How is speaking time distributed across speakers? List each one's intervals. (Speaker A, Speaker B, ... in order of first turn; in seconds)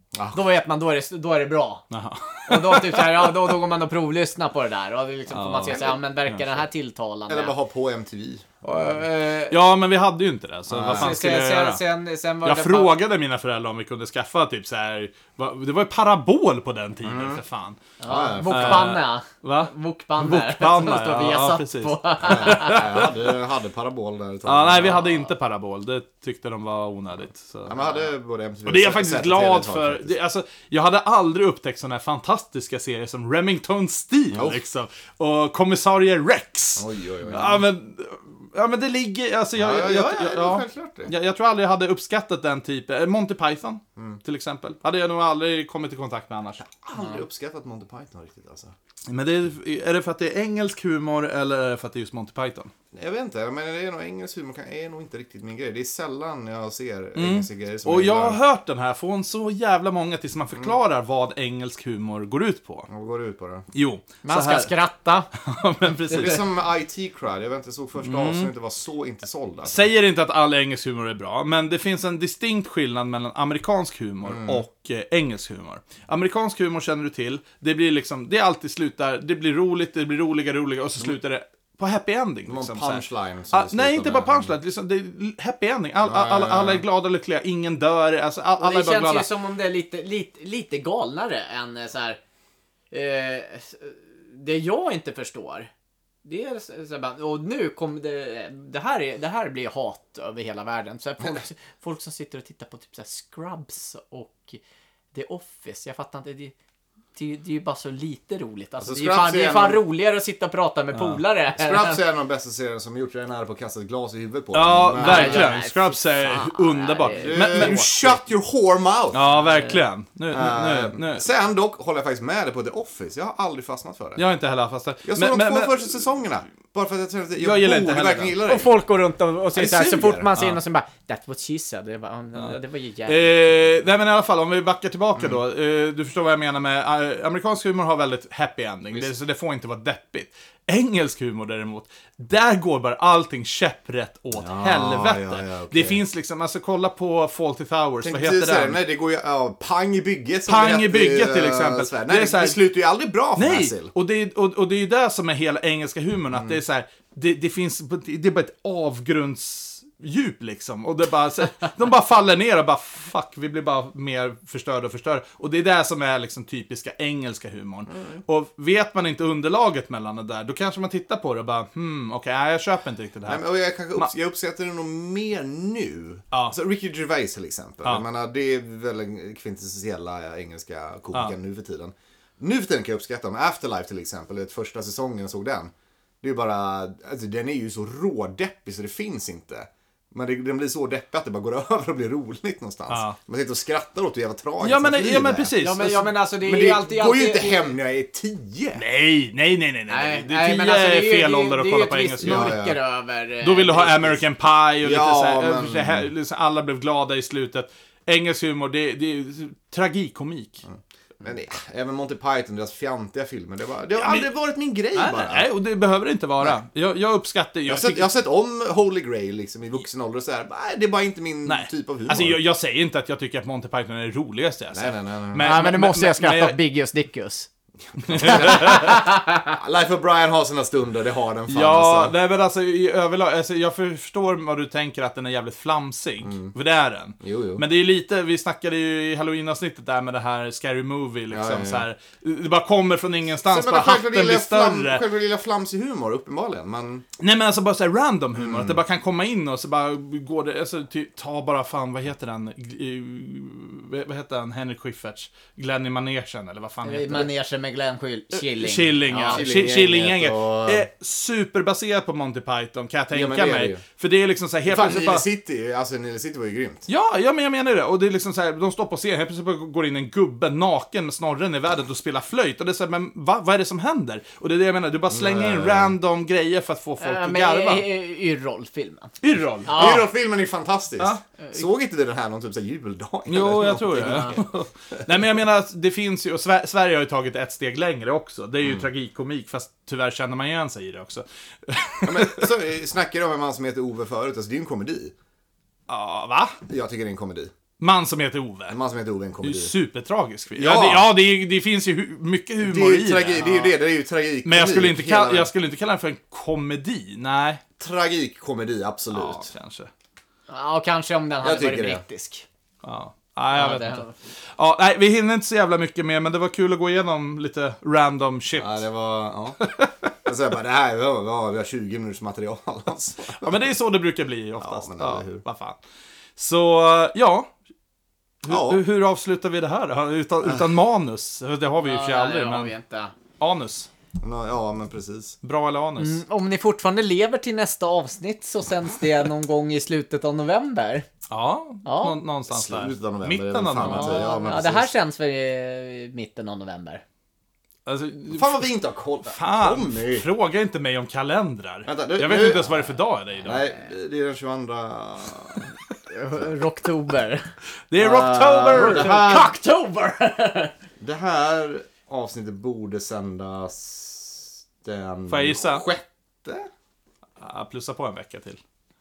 Speaker A: 0.1-0.4, 5.7-5.9, 7.3-8.5, 10.7-11.2, 17.0-17.4, 18.1-18.9, 22.2-25.0, 27.6-30.1, 34.3-34.6, 36.8-37.6, 39.5-41.1, 44.0-44.2, 46.6-48.7, 52.9-58.4, 62.9-63.6, 66.1-69.9, 74.2-74.6, 82.5-84.5, 86.0-86.8, 108.8-109.8, 111.5-115.5, 117.2-119.6, 120.3-124.2, 125.0-128.7, 129.5-130.3, 144.4-146.0, 148.0-153.9, 156.3-156.6, 167.9-168.2, 173.2-195.5, 196.4-198.8, 202.2-202.8, 204.8-206.1, 210.7-215.5, 217.7-222.4, 224.7-225.7, 227.8-232.1, 236.2-236.5, 237.2-237.6, 241.3-241.8, 243.4-247.0, 248.3-248.8, 259.2-260.9, 263.1-263.8, 264.7-266.9, 275.1-276.0, 279.7-284.4, 292.0-295.1, 296.7-297.5, 298.7-299.7, 300.6-301.1, 302.6-305.5, 307.8-309.4, 311.4-312.0, 318.6-319.6, 320.2-323.6, 324.6-325.4, 328.5-328.8, 334.2-335.4, 342.5-344.9, 348.3-350.3, 351.8-352.9, 353.4-355.7, 358.7-359.5, 361.0-366.7
Speaker B: 0.3-1.9, 2.5-7.5, 8.6-9.6, 10.8-12.9, 18.0-22.9, 24.7-25.3, 27.8-28.0, 64.2-65.3, 88.6-92.2, 92.9-95.7, 96.2-104.6, 105.1-106.5, 107.1-112.0, 114.9-118.2, 119.4-119.8, 128.4-133.8, 195.6-197.7, 199.9-204.2, 225.4-227.5, 228.3-229.5, 256.8-259.4, 277.0-279.1, 279.6-280.1, 283.9-284.4, 303.4-303.7, 310.5-312.4, 313.5-314.1, 331.8-333.1, 336.0-341.1, 341.9-342.2, 343.8-347.0, 356.1-360.7
Speaker C: 1.9-3.3, 5.3-6.4, 9.5-11.8, 12.4-17.8, 18.4-23.0, 24.4-27.7, 28.6-46.6, 49.1-52.7, 57.1-62.9, 63.7-64.7, 65.3-66.4, 68.0-68.5, 69.6-89.2, 110.9-111.2, 114.5-117.9, 119.1-121.3, 124.2-125.9, 127.4-128.4, 133.1-148.8, 150.4-152.6, 153.3-174.1, 192.9-193.2, 194.6-196.1, 198.7-202.6, 203.4-210.6, 213.9-214.3, 214.9-218.1, 221.4-226.6, 228.0-229.0, 231.5-245.0, 247.2-257.3, 258.3-265.2, 266.9-277.9, 279.2-279.9, 283.3-292.5, 295.9-296.6, 297.8-298.8, 299.4-303.4, 304.4-307.6, 309.1-309.9, 312.8-318.8, 319.6-319.9, 323.3-325.8, 326.4-327.5, 328.4-332.7, 333.4-333.9, 335.4-336.2, 341.3-344.3, 347.9-348.7, 349.2-353.6, 357.9-359.3, 365.3-365.9, 367.4-368.6